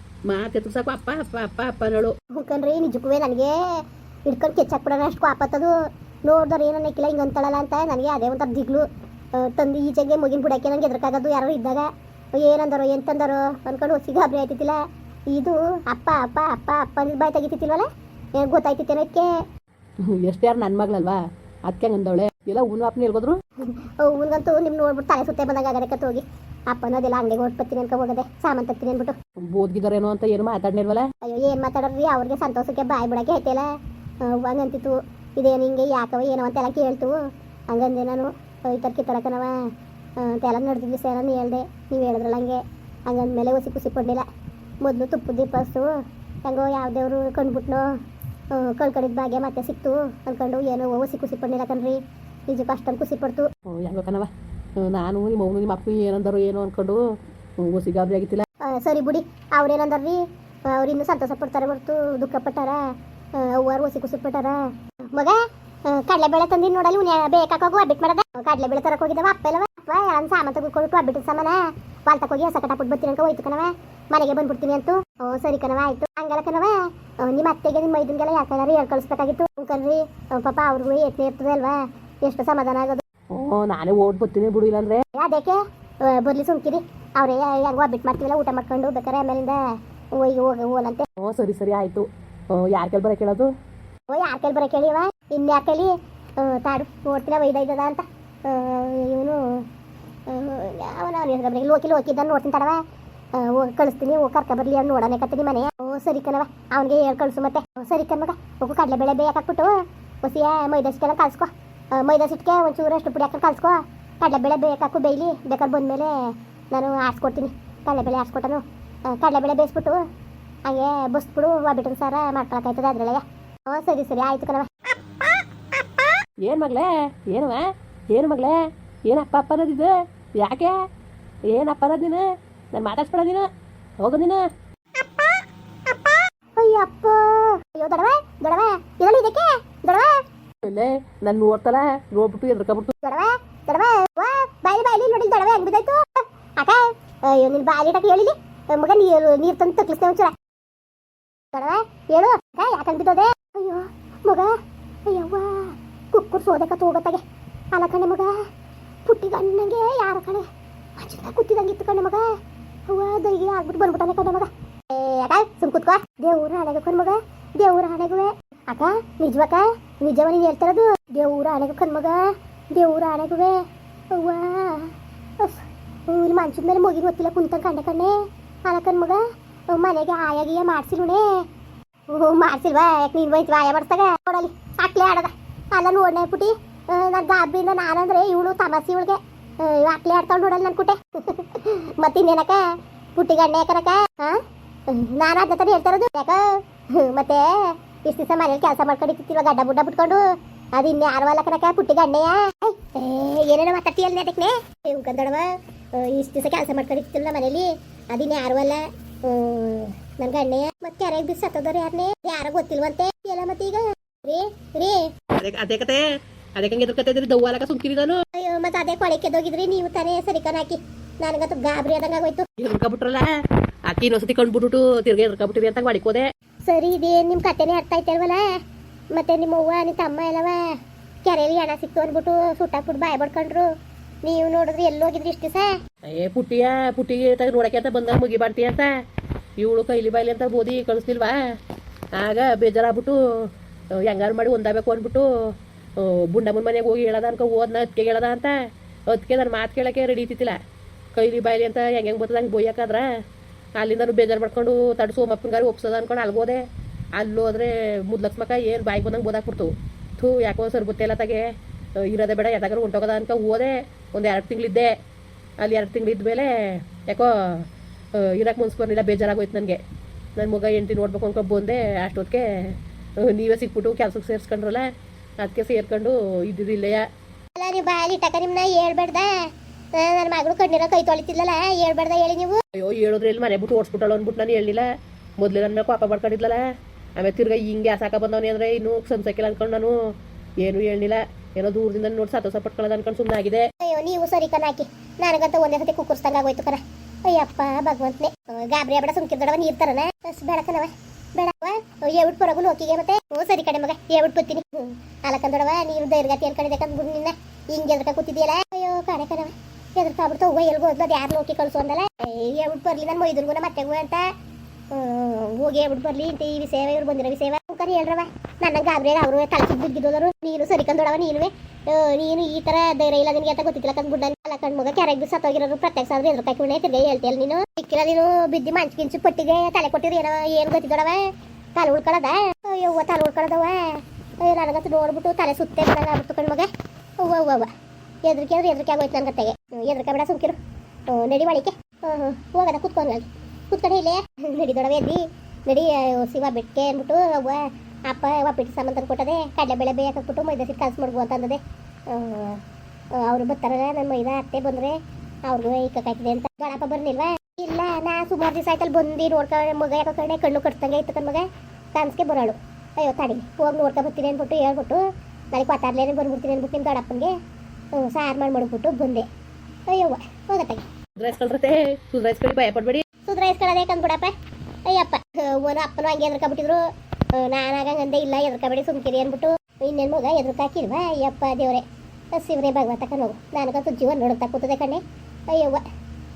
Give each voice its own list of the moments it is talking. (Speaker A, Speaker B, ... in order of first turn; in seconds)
Speaker A: 0.3-2.2, 20.1-23.4, 29.4-31.1, 53.7-57.0, 57.6-58.5, 83.3-85.0, 91.2-93.5, 126.4-130.8, 131.5-134.5, 140.7-142.9, 215.3-216.1, 216.6-218.2, 222.6-223.3, 223.9-226.3, 236.1-238.9, 239.6-241.4, 242.2-245.3, 246.0-250.6, 251.1-253.1, 253.8-265.0, 265.6-269.8, 270.4-274.9, 275.4-277.1, 282.8-286.6, 287.2-293.7, 371.2-373.1
Speaker B: 2.3-19.3, 23.6-29.2, 31.2-37.2, 37.7-44.3, 44.8-45.9, 46.5-47.9, 48.5-53.5, 58.6-83.0, 85.2-89.6, 90.2-91.1, 94.1-99.7, 100.3-102.8, 103.3-120.0, 120.7-124.9, 135.0-140.2, 143.0-150.4, 151.5-154.5, 155.1-158.3, 159.1-162.3, 162.9-181.4, 182.1-215.1, 218.3-222.5, 226.7-228.5, 229.1-230.7, 231.2-233.7, 234.2-235.8, 277.6-282.6, 293.8-314.3, 314.9-337.7, 338.2-352.6, 353.1-367.3, 367.9-369.3, 369.9-370.9, 373.3-374.3, 374.9-385.9